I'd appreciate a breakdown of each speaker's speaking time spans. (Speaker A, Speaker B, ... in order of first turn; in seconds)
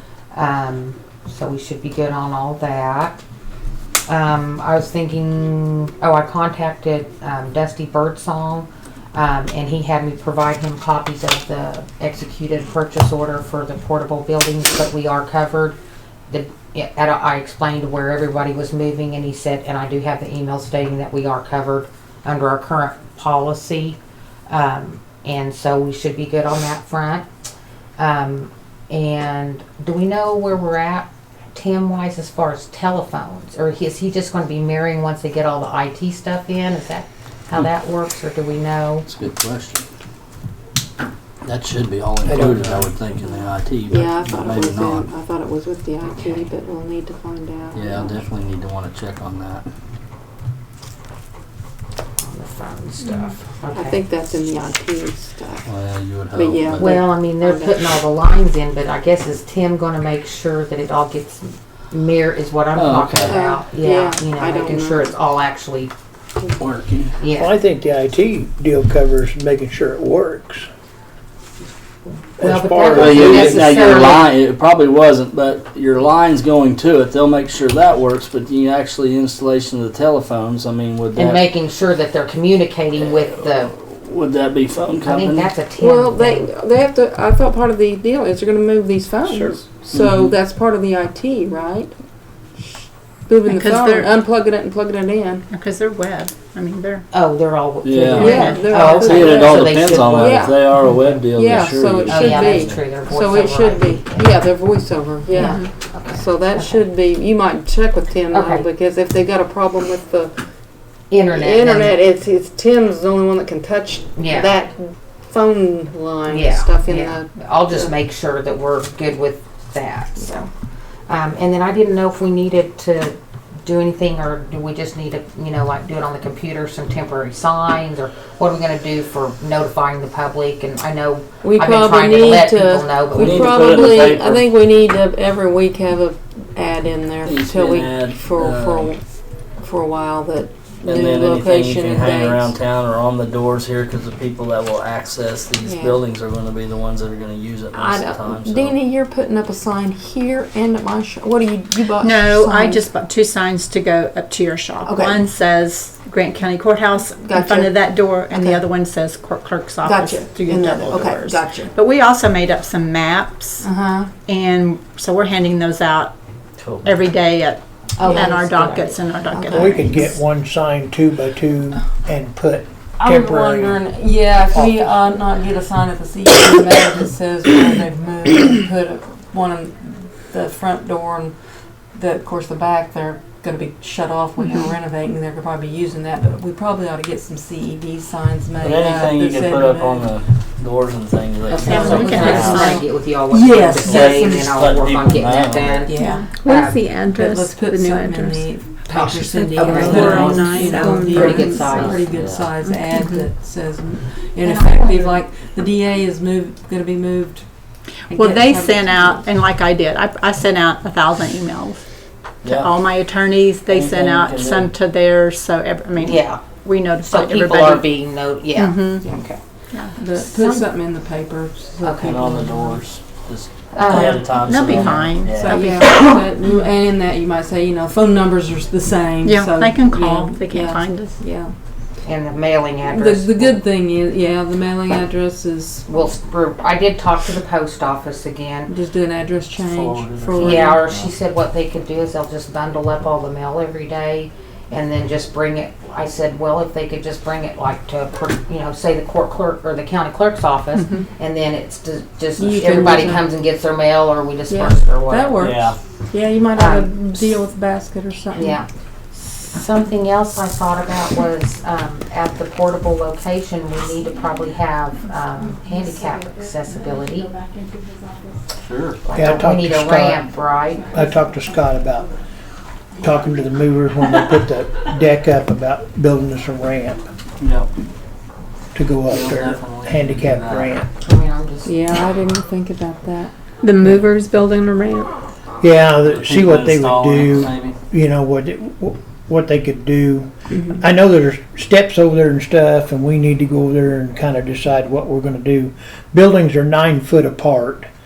Speaker A: 0.3-3.2, 4.1-15.8, 16.3-24.0, 24.5-27.2, 28.0-39.1, 52.2-54.0, 56.8-65.9, 67.2-67.5, 72.4-74.3, 81.2-83.7, 85.0-86.5, 97.1-100.4, 102.1-104.3, 105.3-106.8, 108.3-108.7, 111.1-112.0, 114.2-114.6, 116.3-120.5, 121.1-133.6, 168.0-168.8, 191.5-196.8, 198.9-202.1, 216.0-216.4, 217.0-219.4, 220.1-220.7, 221.8-222.2, 223.7-224.3, 232.0-233.6, 235.9-238.7, 240.4-255.4, 256.5-257.0, 258.3-267.3, 269.0-270.9, 281.0-281.8
Speaker B: 39.0-39.8, 41.4-45.1, 47.7-49.7, 55.6-56.9, 62.8-63.4, 66.6-67.1, 72.9-81.4, 83.0-85.5, 89.9-90.3, 97.8-98.4, 99.0-103.0, 133.1-134.5, 137.2-138.9, 140.8-148.8, 166.6-166.9, 188.6-192.7, 193.8-195.9, 202.1-202.5, 212.4-212.7, 213.7-214.7, 222.0-225.7, 239.6-241.1, 255.4-255.8, 268.6-269.0, 277.4-277.7, 279.0-280.8, 286.0-287.8
Speaker C: 42.2-42.9, 67.3-70.7, 72.4-74.1, 89.3-89.5, 169.5-173.8, 174.5-174.9, 269.1-270.2, 270.9-272.1, 273.0-277.1, 278.7-280.9, 285.6-297.9
Speaker D: 43.9-48.2, 53.0-55.7, 56.3-57.8, 63.3-65.1, 85.8-92.0, 92.6-95.5, 98.1-110.3, 111.3-117.3, 120.2-120.5, 131.4-139.0, 139.6-142.5, 145.6-146.0, 147.7-152.8, 154.8-155.2, 157.2-158.6, 159.8-161.7, 163.6-164.1, 168.0-170.1, 173.0-181.3, 181.9-190.1, 191.8-192.8, 193.3-194.5, 195.8-196.3, 197.0-207.4, 208.1-209.3, 220.0-222.8, 225.3-231.5, 232.8-235.9, 238.7-240.8, 252.4-253.3, 254.5-258.6, 281.6-283.3
Speaker E: 93.5-94.1, 95.5-97.0, 98.2-99.1, 105.3-105.6, 152.0-163.7, 164.2-166.1, 166.8-169.8, 191.6-192.8, 196.0-198.4, 199.5-201.9, 202.9-203.2, 204.4-205.1, 208.1-211.8, 212.4-218.0, 218.5-219.0, 223.9-226.2, 229.2-231.2, 283.6-284.7